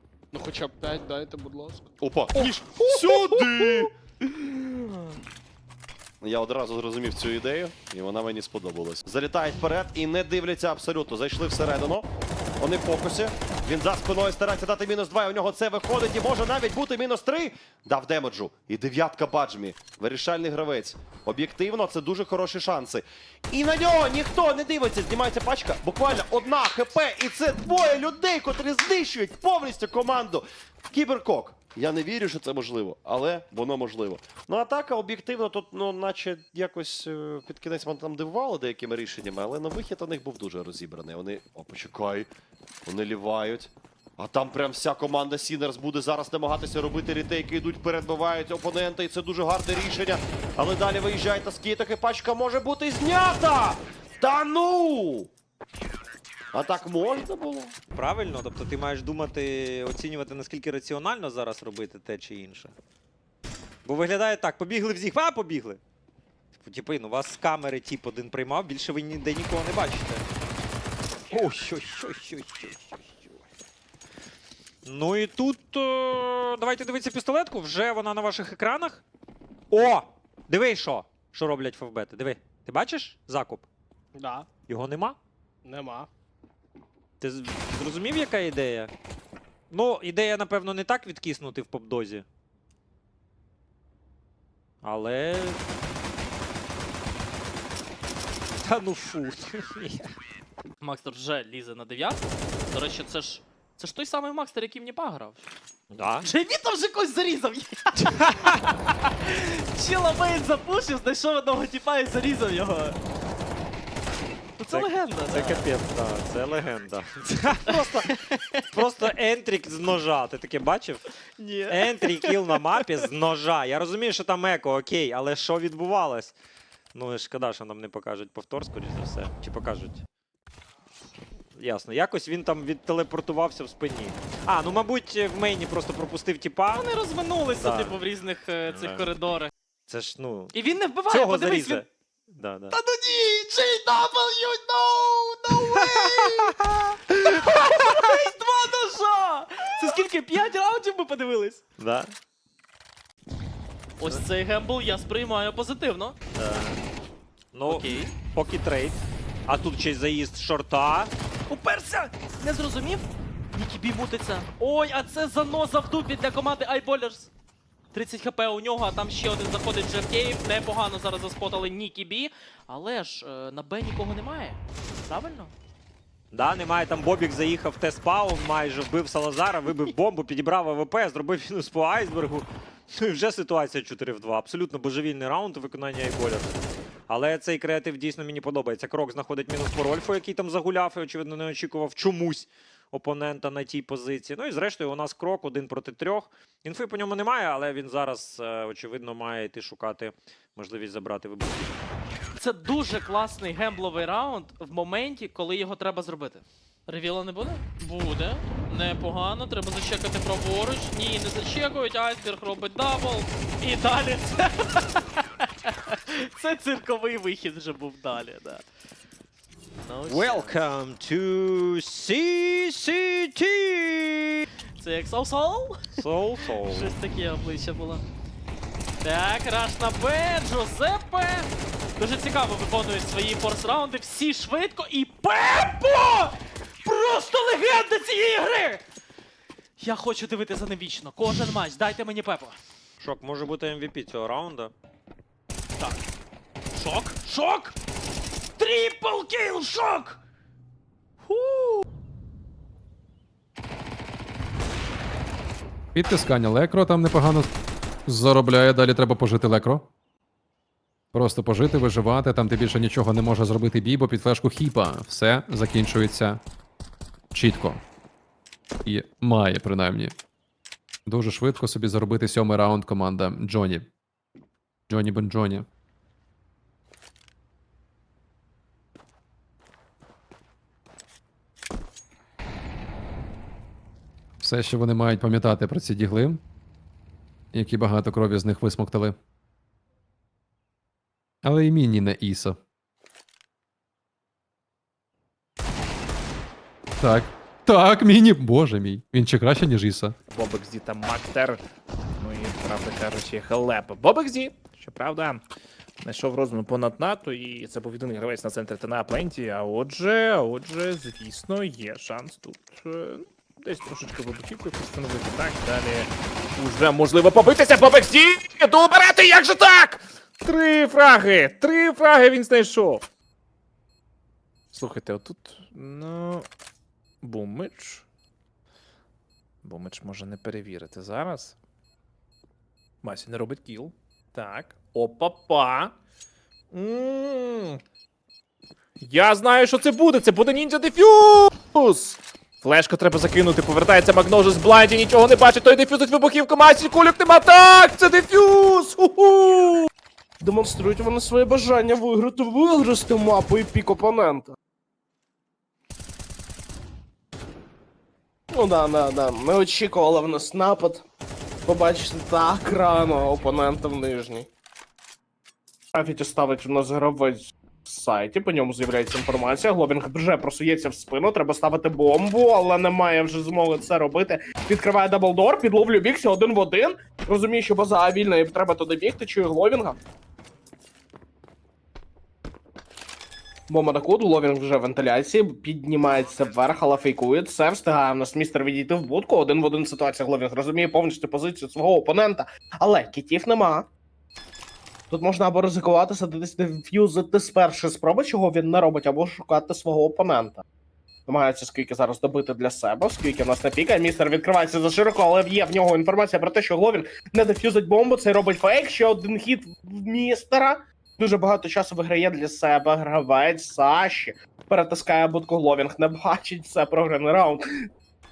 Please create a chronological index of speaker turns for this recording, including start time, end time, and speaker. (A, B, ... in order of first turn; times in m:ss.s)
0:00.3-0:01.9 A
0:02.0-0:03.9 B
0:06.2-0:12.1 B
0:12.6-0:42.3 B
0:42.9-0:55.3 B
0:56.5-0:57.7 B
0:57.9-1:02.7 C
1:03.8-1:05.8 C
1:06.6-1:10.3 C
1:11.3-1:13.4 C
1:14.8-1:19.0 C
1:19.7-1:23.7 C
1:24.2-1:24.5 A
1:24.7-1:25.2 C
1:25.6-1:26.1 A
1:27.2-1:28.9 C
1:29.7-1:32.2 C
1:34.8-1:35.6 C
1:38.6-1:40.1 C
1:40.8-1:45.5 D
1:45.9-1:46.3 C
1:46.2-1:53.0 D
1:54.6-1:55.6 D
1:54.7-1:58.1 C
1:57.7-1:58.4 D
1:58.7-2:01.1 C
2:01.4-2:03.1 D
2:01.7-2:06.4 C
2:06.9-2:10.0 C
2:11.6-2:16.9 C
2:16.7-2:19.5 D
2:17.6-2:18.0 C
2:18.7-2:19.1 C
2:19.9-2:22.8 C
2:20.5-2:21.8 D
2:22.7-2:26.5 D
2:25.6-2:26.8 C
2:27.1-2:31.6 D
2:31.8-2:32.1 C
2:34.0-2:36.2 D
2:36.4-2:36.8 C
2:37.5-2:41.1 C
2:37.7-2:38.2 D
2:41.5-2:47.3 D
2:47.9-2:55.5 D
2:56.3-3:06.6 C
3:07.1-3:21.8 C
3:22.4-3:38.6 D
3:39.8-3:40.6 D
3:40.1-3:44.5 C
3:44.8-3:48.0 D
3:45.9-3:46.9 C
3:49.0-3:58.8 D
3:59.8-4:02.6 D
4:03.0-4:04.7 C
4:06.8-4:07.8 D
4:08.6-4:10.2 D
4:11.3-4:11.8 D
4:16.0-4:17.5 E
4:18.1-4:19.9 E
4:21.1-4:26.4 E
4:27.3-4:27.8 E
4:28.9-4:30.2 E
4:31.1-4:33.9 E
4:34.9-4:35.7 E
4:44.4-4:46.4 E
4:47.5-4:49.2 E
4:51.4-4:52.6 E
4:57.0-5:00.1 E
5:00.3-5:01.6 F
5:02.2-5:05.4 F
5:06.0-5:23.0 F
5:24.7-5:26.5 F
5:27.2-5:28.1 F
5:29.6-5:31.6 F
5:33.0-5:36.0 F
5:36.7-5:37.8 F
5:39.0-5:49.5 F
5:50.4-5:54.6 A
5:58.5-6:01.0 A
6:01.7-6:04.5 A
6:06.0-6:20.0 A
6:23.7-6:33.9 A
6:35.1-6:40.6 A
6:41.3-6:57.6 A